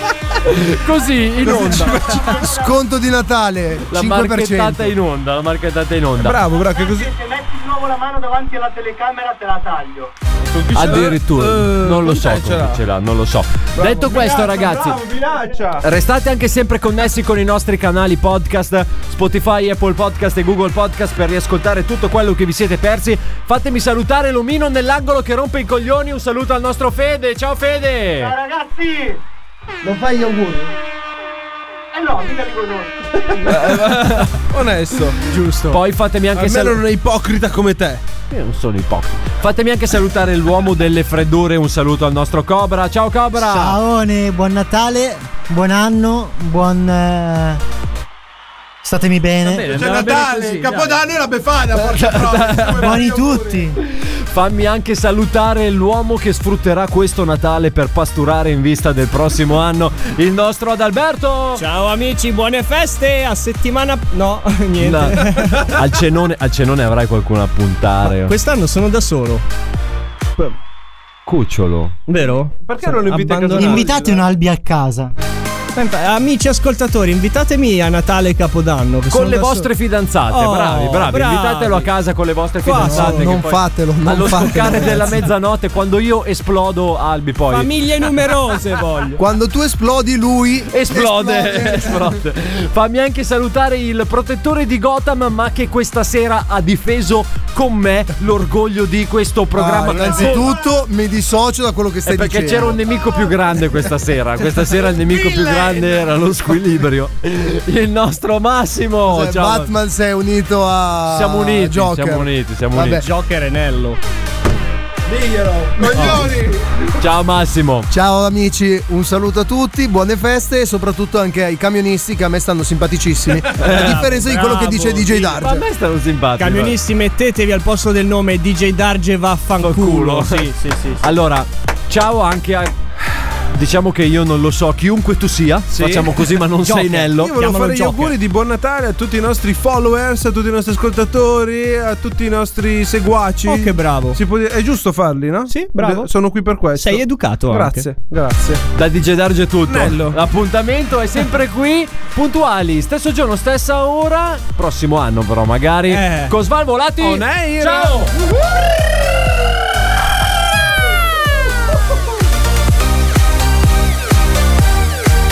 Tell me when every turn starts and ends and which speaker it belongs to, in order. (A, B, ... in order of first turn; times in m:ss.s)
0:00.4-0:02.2 A
0:01.4-0:02.5 B
0:01.4-0:02.8 C
0:02.6-0:04.9 D
0:03.9-0:06.4 A
0:06.2-0:07.1 B
0:06.5-0:10.1 C
0:10.5-0:12.8 B
0:10.7-0:15.0 A
0:13.8-0:15.8 B
0:15.8-0:28.3 A
0:28.2-0:29.2 C
0:29.8-0:30.4 D
0:31.9-0:33.4 C
0:33.3-0:34.5 A
0:33.5-0:35.2 B
0:35.2-0:35.8 E
0:35.7-0:36.8 A
0:36.3-0:38.0 B
0:38.3-0:43.8 A
0:43.4-0:47.6 F
0:48.8-0:49.7 F
0:49.5-0:50.8 A
0:49.7-0:50.9 B
0:49.7-0:50.8 E
0:49.8-0:52.6 G
0:51.7-0:53.0 A
0:52.2-0:53.6 B
0:52.8-0:53.8 F
0:53.8-1:01.6 A
1:01.5-1:05.7 E
1:04.8-1:08.3 A
1:08.0-1:09.4 E
1:11.2-1:12.0 A
1:12.1-1:14.0 E
1:12.6-1:14.3 B
1:13.5-1:15.1 F
1:15.8-1:19.7 E
1:19.1-1:27.7 A
1:20.3-1:21.9 E
1:22.6-1:23.4 E
1:22.8-1:25.2 D
1:27.5-1:29.2 E
1:29.2-1:32.2 D
1:30.7-1:40.5 A
1:39.5-1:42.8 D
1:42.0-1:49.7 A
1:49.0-1:53.0 D
1:51.1-1:53.0 A
1:53.0-1:54.0 E
1:55.1-1:56.5 B
1:55.8-1:56.2 G
1:55.9-1:56.2 A
1:57.0-1:57.9 A
1:57.9-2:05.6 D
2:03.6-2:04.0 A
2:03.6-2:04.9 E
2:04.7-2:06.8 A
2:06.4-2:11.0 E
2:09.6-2:10.5 A
2:11.0-2:12.7 A
2:13.5-2:17.3 A
2:15.8-2:16.1 B
2:16.5-2:18.1 E
2:17.2-2:28.6 B
2:23.4-2:24.2 E
2:25.5-2:26.1 E
2:26.7-2:27.9 E
2:28.8-2:38.1 A
2:29.7-2:30.0 B
2:29.9-2:30.1 E
2:35.9-2:36.3 E
2:37.0-2:38.1 B